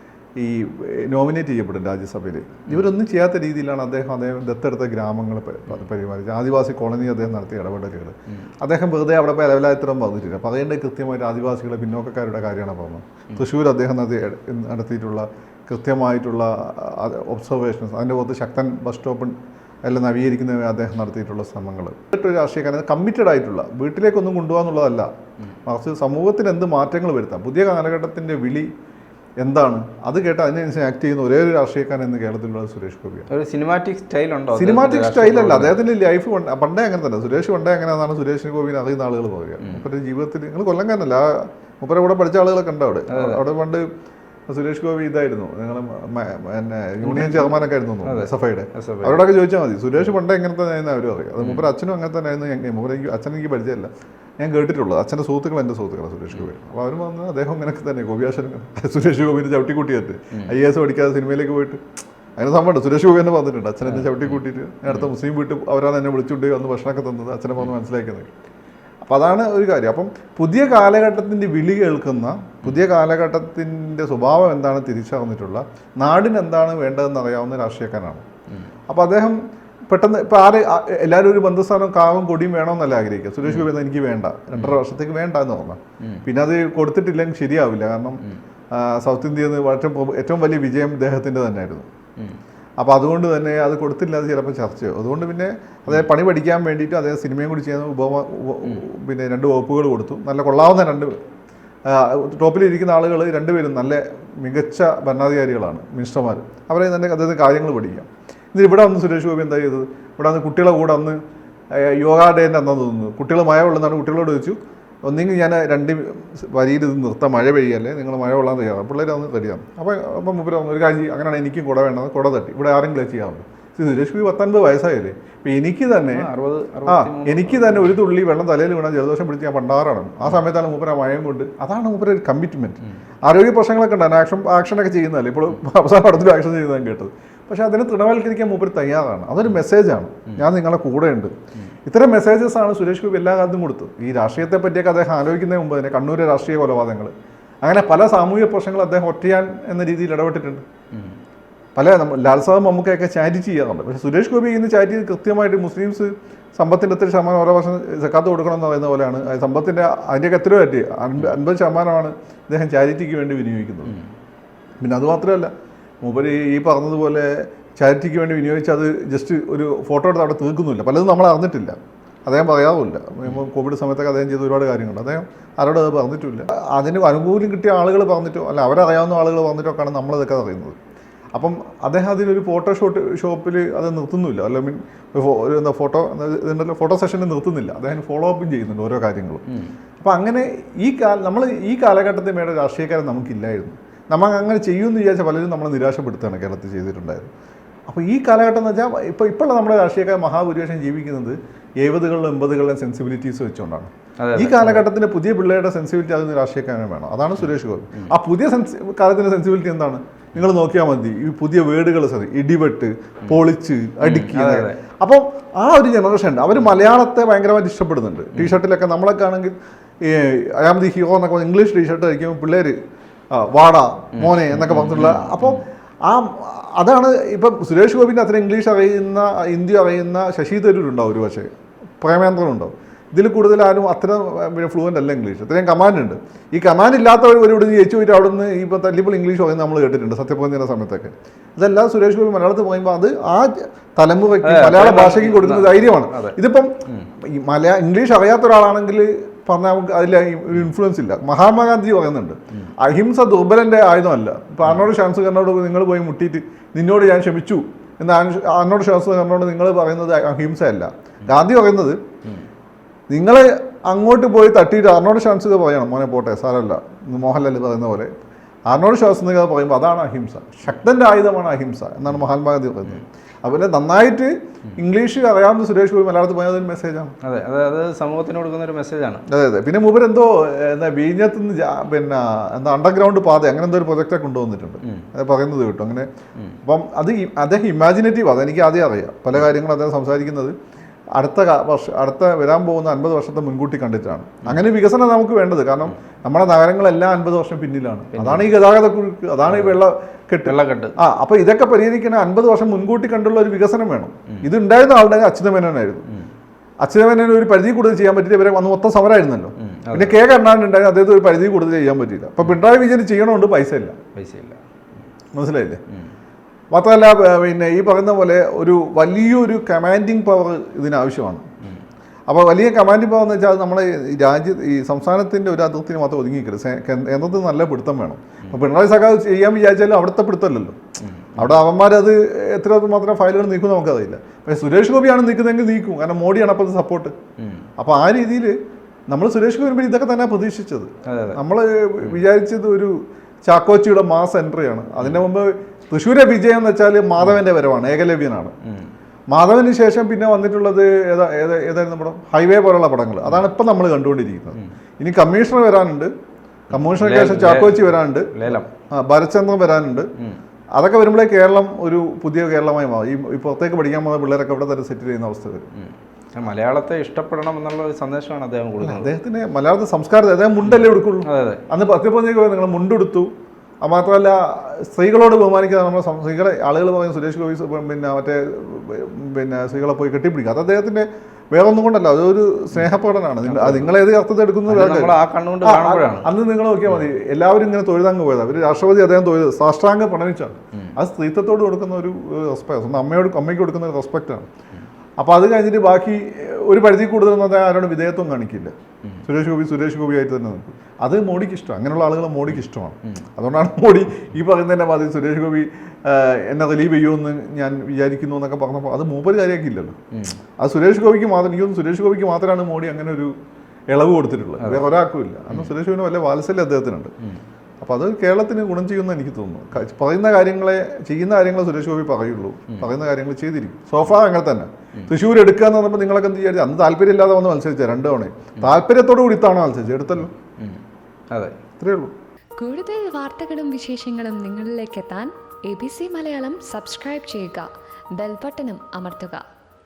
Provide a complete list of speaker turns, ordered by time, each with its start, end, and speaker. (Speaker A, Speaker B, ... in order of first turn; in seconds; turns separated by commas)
Speaker A: 0.3-25.1, Speaker A: 25.6-28.7, Speaker A: 29.4-33.3, Speaker B: 33.3-35.8, Speaker A: 34.5-43.8, Speaker B: 43.1-43.4, Speaker A: 44.5-61.8, Speaker B: 47.0-49.2, Speaker B: 51.4-51.7, Speaker A: 62.4-68.3, Speaker B: 63.8-65.1, Speaker A: 69.0-78.2, Speaker A: 78.9-79.4, Speaker A: 79.9-91.9, Speaker B: 83.4-83.7, Speaker B: 86.0-86.2, Speaker A: 92.8-101.2, Speaker A: 101.8-126.3, Speaker B: 126.1-128.0, Speaker A: 126.8-141.3, Speaker A: 141.8-147.1, Speaker A: 147.6-150.6, Speaker A: 151.8-163.9, Speaker A: 164.8-165.5, Speaker A: 166.0-180.8, Speaker A: 181.3-189.4, Speaker B: 189.5-189.7, Speaker A: 190.0-197.3, Speaker A: 197.9-222.8, Speaker B: 204.2-204.9, Speaker B: 214.0-214.8, Speaker A: 223.3-262.0, Speaker B: 224.1-225.6, Speaker B: 244.4-246.3, Speaker A: 263.1-268.1, Speaker A: 268.7-277.1, Speaker B: 277.2-279.2, Speaker A: 279.3-286.1, Speaker B: 284.8-285.1, Speaker A: 286.6-290.5, Speaker A: 291.1-306.0, Speaker B: 298.1-298.5, Speaker B: 299.5-299.8, Speaker B: 300.4-300.9, Speaker A: 306.8-314.0, Speaker B: 309.6-310.1, Speaker B: 314.1-314.6, Speaker A: 315.3-315.8, Speaker A: 316.7-321.4, Speaker A: 322.3-330.8, Speaker B: 331.0-331.4, Speaker A: 331.4-337.1, Speaker B: 337.4-337.7, Speaker A: 337.8-338.5, Speaker A: 339.1-348.5, Speaker B: 341.1-341.4, Speaker A: 349.3-356.1, Speaker A: 356.7-360.1, Speaker B: 356.7-358.7, Speaker A: 360.8-365.6, Speaker B: 365.7-369.1, Speaker A: 368.8-373.3, Speaker B: 370.6-371.6, Speaker A: 373.8-394.5, Speaker B: 383.4-383.9, Speaker B: 384.7-386.3, Speaker A: 395.2-398.7, Speaker A: 399.2-409.9, Speaker B: 410.1-410.4, Speaker A: 410.6-413.3, Speaker A: 413.9-417.1, Speaker A: 417.8-430.3, Speaker A: 431.8-432.1, Speaker C: 432.6-439.4